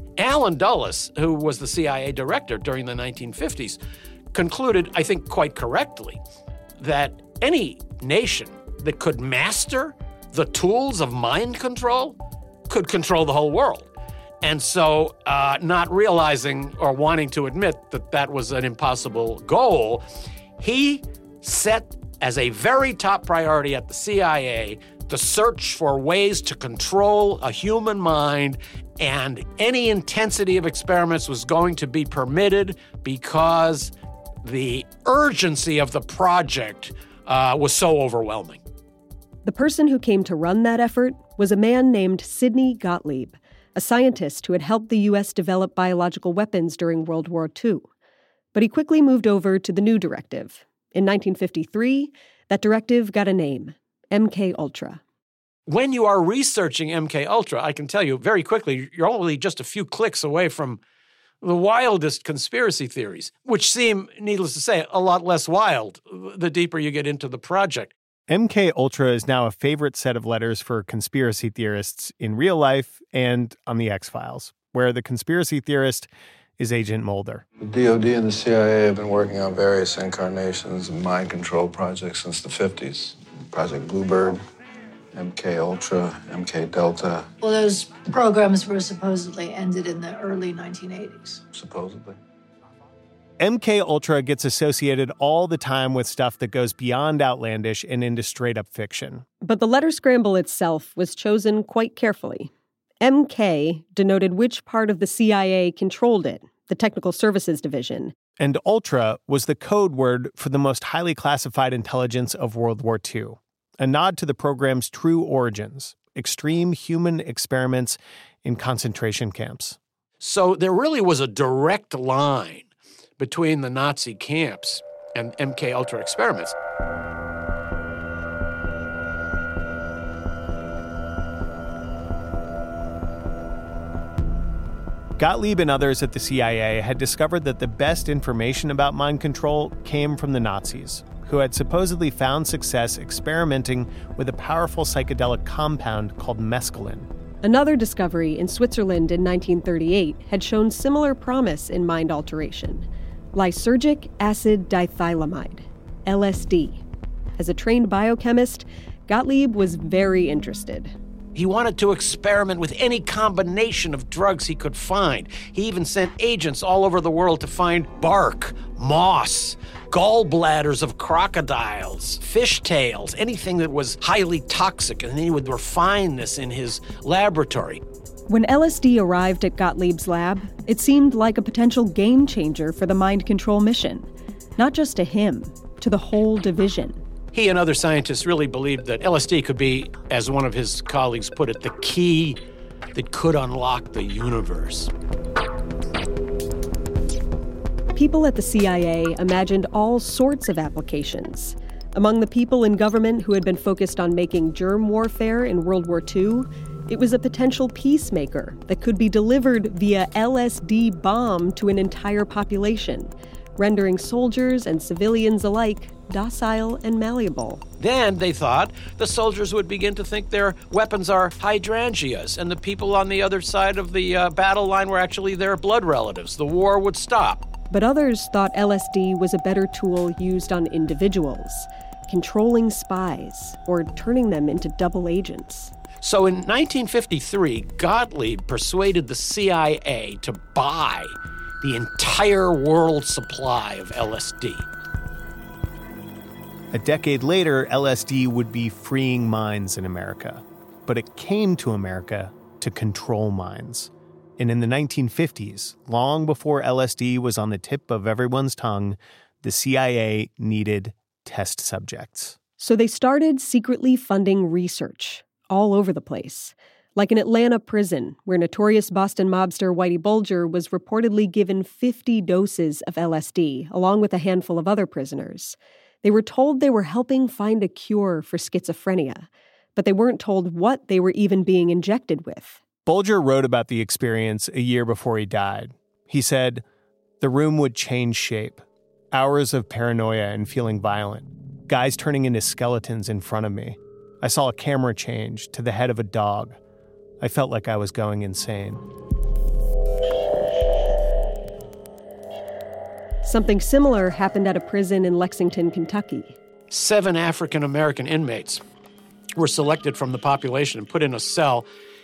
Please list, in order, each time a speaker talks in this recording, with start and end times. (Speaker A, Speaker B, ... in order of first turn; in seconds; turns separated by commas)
Speaker A: 0.2-3.8, Speaker A: 4.3-6.2, Speaker A: 6.8-12.2, Speaker A: 12.7-13.9, Speaker A: 14.4-20.0, Speaker A: 20.6-33.9, Speaker A: 34.4-38.6, Speaker B: 39.4-47.9, Speaker B: 48.5-55.0, Speaker A: 55.7-60.8, Speaker A: 61.4-67.9, Speaker C: 68.3-77.4, Speaker D: 77.6-84.4, Speaker D: 85.1-87.3, Speaker E: 87.4-91.4, Speaker D: 91.5-92.2, Speaker C: 93.4-99.2, Speaker B: 99.4-108.1, Speaker C: 108.4-119.8, Speaker A: 120.2-126.5, Speaker C: 135.2-147.1, Speaker B: 147.4-156.8, Speaker B: 157.4-160.9, Speaker A: 161.3-177.8, Speaker B: 178.3-187.0, Speaker A: 187.3-192.4, Speaker A: 192.9-194.9, Speaker B: 197.9-217.6, Speaker A: 217.8-227.4, Speaker B: 227.7-235.7, Speaker A: 236.0-244.7, Speaker C: 246.7-262.4, Speaker B: 262.6-282.6, Speaker C: 282.8-286.6, Speaker C: 287.2-296.6, Speaker C: 297.2-298.8, Speaker B: 303.2-306.4, Speaker A: 306.7-308.6, Speaker A: 309.4-311.7